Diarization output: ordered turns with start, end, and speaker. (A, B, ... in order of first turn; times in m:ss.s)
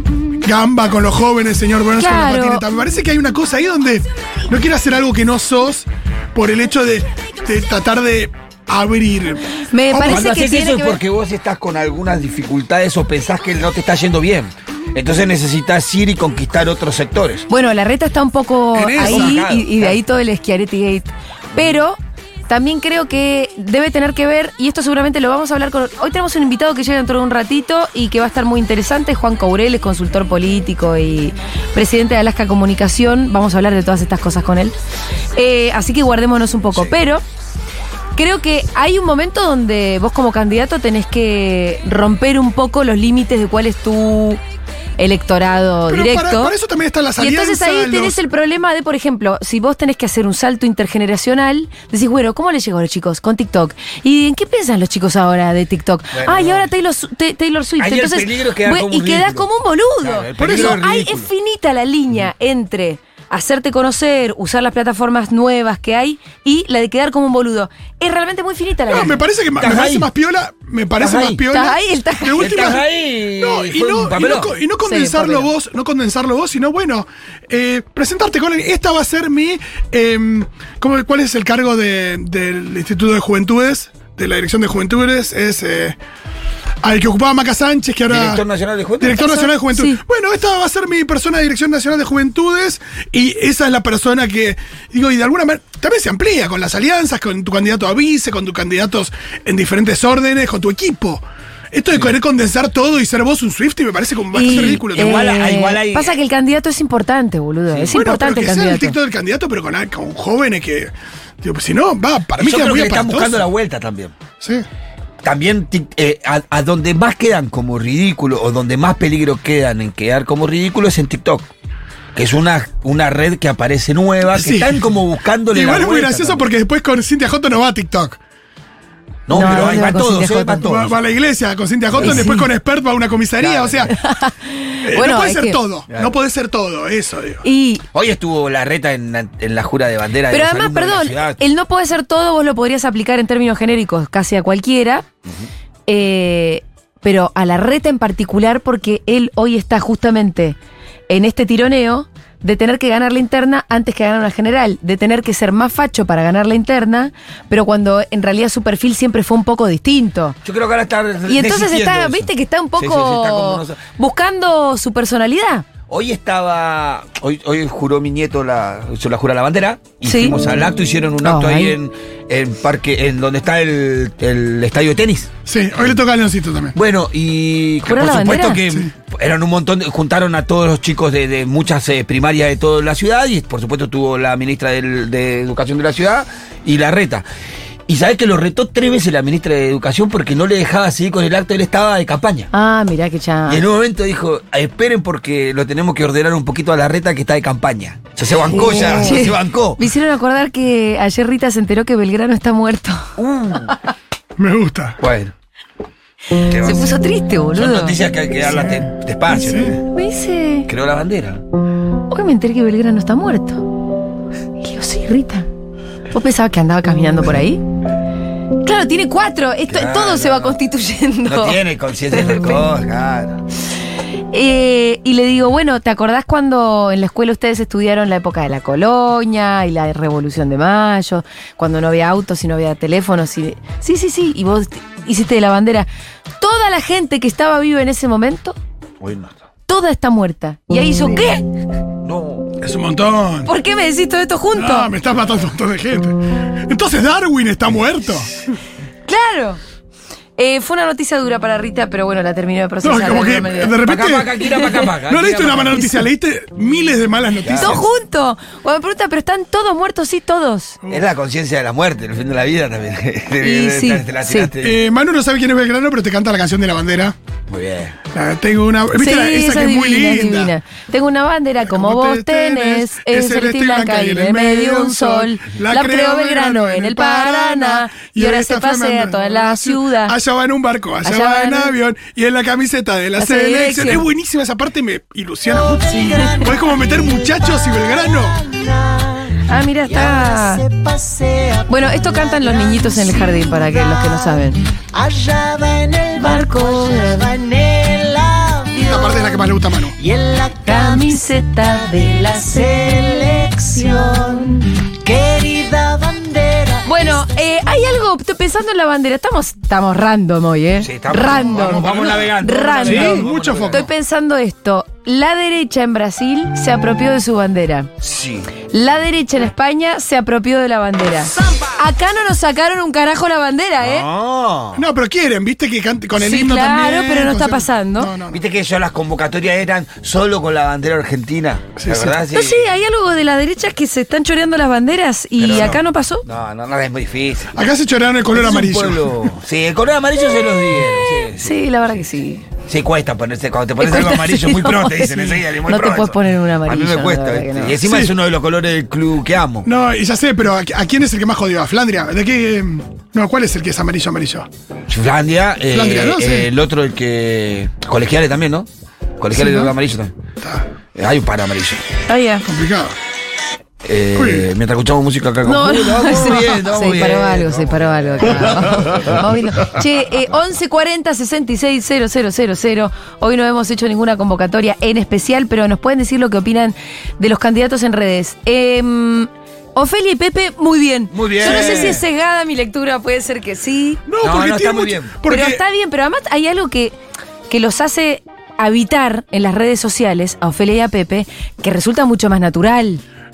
0:00.4-0:10.2 A
0:02.0-0:02.6 B
0:09.7-0:11.0 B
0:10.0-0:17.5 C
0:17.5-0:34.7 B
0:18.7-0:19.4 A
0:19.0-0:20.0 C
0:35.4-0:37.2 B
0:38.2-0:44.4 B
0:45.0-0:46.5 B
0:45.9-0:48.2 A
0:47.2-1:09.2 B
0:56.1-0:56.7 C
0:57.8-0:59.5 C
1:00.0-1:01.3 C
1:00.4-1:00.8 A
1:08.9-1:26.0 A
1:09.6-1:10.1 C
1:11.0-1:11.4 C
1:11.5-1:12.8 B
1:12.4-1:14.6 C
1:14.8-1:15.5 B
1:26.8-1:28.4 A
1:28.1-1:29.2 C
1:29.0-1:45.3 A
1:29.1-1:30.0 B
1:44.3-1:49.0 B
1:44.4-1:46.2 C
1:47.9-1:53.4 A
1:52.4-1:54.2 C
1:54.4-1:54.6 A
1:55.2-2:01.5 C
2:02.1-2:06.4 C
2:04.3-2:04.8 A
2:05.5-2:08.2 A
2:09.3-2:11.0 C
2:09.3-2:10.7 B
2:09.4-2:09.7 A
2:10.6-2:13.9 A
2:11.9-2:12.2 C
2:12.0-2:12.5 B
2:13.4-2:13.9 C
2:13.9-2:15.6 B
2:14.8-2:17.4 A
2:15.9-2:16.1 C
2:17.4-2:17.8 B
2:17.9-2:21.4 C
2:20.3-2:25.1 B
2:25.9-2:30.6 B
2:31.1-2:40.4 B
2:40.4-2:43.8 C
2:41.3-2:45.6 B
2:45.9-2:55.3 C
2:50.0-2:50.3 B
2:51.2-2:51.8 B
2:55.4-2:56.7 A
2:56.7-3:07.2 C
2:57.9-2:58.6 B
3:07.9-3:12.5 C
3:12.5-3:13.6 B
3:13.5-3:19.8 C
3:18.5-3:23.1 B
3:18.5-3:19.1 A
3:23.2-3:23.7 C
3:24.4-3:25.0 A
3:25.0-3:25.3 C
3:26.4-3:27.0 C
3:26.5-3:28.0 B
3:27.5-3:29.8 C
3:28.5-3:29.8 A
3:29.8-3:30.7 B
3:30.7-3:31.4 C
3:32.1-3:33.7 B
3:34.6-3:35.5 B
3:36.1-3:37.6 B
3:38.6-3:41.6 B
3:39.7-3:40.6 C
3:41.2-3:43.4 C
3:42.1-3:42.6 B
3:44.3-3:55.9 B
3:56.4-3:58.6 B
3:59.0-3:59.4 C
3:59.7-4:01.5 B
4:02.0-4:02.6 C
4:02.6-4:03.5 A
4:03.4-4:04.9 B
4:04.5-4:08.3 A
4:09.1-4:09.6 B
4:10.4-4:13.8 B
4:12.8-4:14.3 A
4:13.8-4:15.8 C
4:15.0-4:17.8 A
4:17.4-4:17.8 C
4:17.5-4:20.8 B
4:20.9-4:24.8 C
4:23.4-4:24.5 B
4:24.6-4:27.1 A
4:27.5-4:28.0 C
4:28.1-4:30.5 A
4:29.0-4:40.1 B
4:31.6-4:48.4 A
4:41.0-4:41.7 B
4:43.2-4:44.0 B
4:45.5-5:07.2 D
4:45.9-4:46.4 B
4:49.5-4:50.6 B
4:51.7-4:54.6 B
4:56.2-4:57.3 B
4:58.8-5:00.0 A
5:00.7-5:02.1 B
5:06.8-5:17.9 B
5:10.8-5:13.9 C
5:12.8-5:13.9 A
5:18.0-5:18.5 C
5:18.7-5:24.1 B
5:23.8-5:24.8 C
5:24.7-5:28.4 A
5:26.2-5:28.1 B
5:28.3-5:32.7 C
5:31.8-5:32.2 A
5:32.3-5:36.2 B
5:35.4-5:37.5 C
5:37.5-5:39.3 A
5:38.3-5:41.6 C
5:41.4-5:42.4 B
5:42.6-5:49.7 C
5:43.8-5:47.8 B
5:47.8-5:48.1 A
5:49.6-5:54.5 A
5:54.9-5:58.7 C
5:55.7-5:56.5 A
5:59.2-6:00.1 C
6:00.4-6:00.6 A
6:00.9-6:01.8 C
6:02.1-6:02.4 B
6:02.4-6:02.9 A
6:03.8-6:09.7 C
6:04.1-6:04.4 A
6:05.4-6:24.0 B
6:21.1-6:22.0 C
6:21.4-6:21.9 A
6:24.1-6:25.6 A
6:24.2-6:25.2 C
6:25.2-6:27.0 B
6:27.5-6:33.0 B